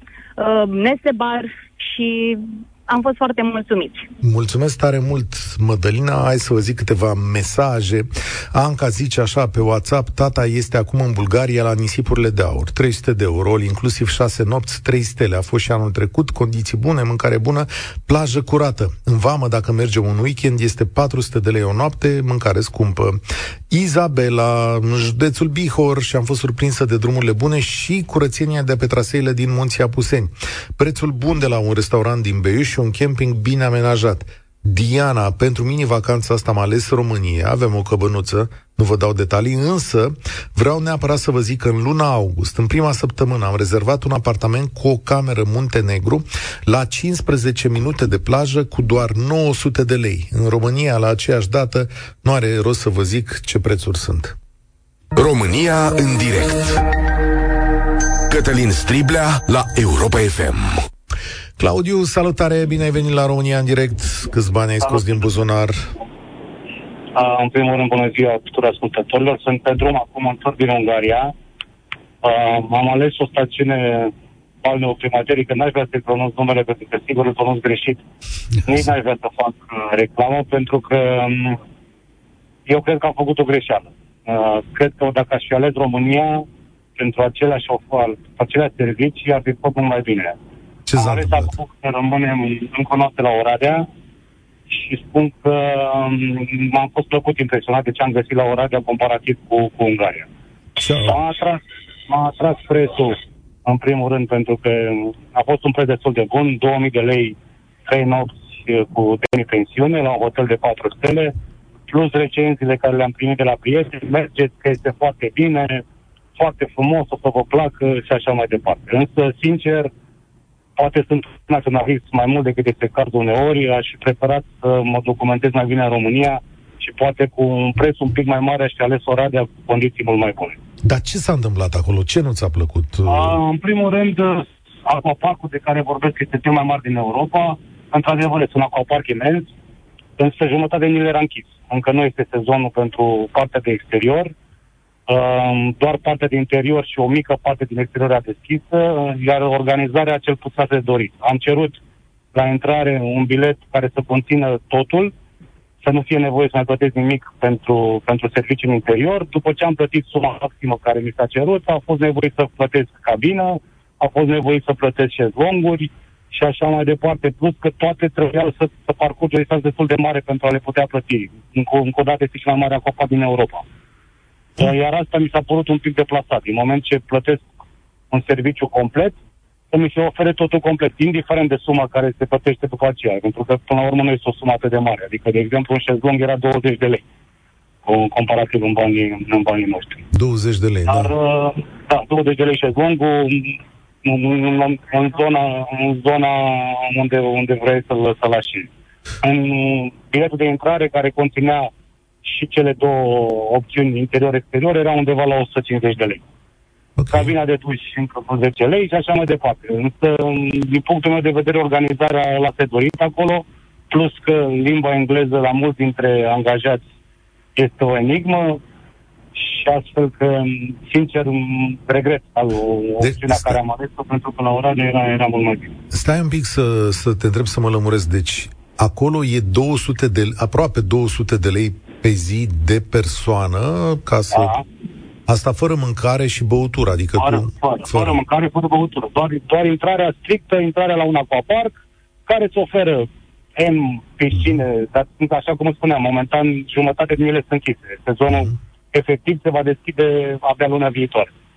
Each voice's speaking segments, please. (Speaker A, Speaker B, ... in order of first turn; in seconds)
Speaker A: 0.4-4.1
Speaker B: 4.2-54.4, 61.6-65.8, 90.9-91.5, 100.8-101.2, 130.8-133.4, 190.1-191.1, 207.0-207.3, 223.0-223.6, 225.9-234.6, 235.3-238.2, 244.3-244.6, 248.3-248.5
Speaker C: 55.1-56.8, 58.3-60.8
Speaker D: 67.1-71.3, 72.2-78.0, 78.7-81.6, 82.7-86.5, 87.0-90.4, 91.0-93.9, 94.7-100.3, 101.0-111.3, 111.9-115.8, 116.4-119.9, 120.8-130.6, 133.1-139.5, 140.2-144.3, 145.1-151.8, 152.3-155.1, 155.8-173.6, 174.6-177.4, 178.1-179.2, 179.7-187.0, 187.9-190.1, 190.9-198.7, 199.2-201.7, 202.2-206.2, 207.1-216.8, 217.6-218.6, 219.3-225.8, 234.3-234.6, 237.2-241.8, 242.3-251.3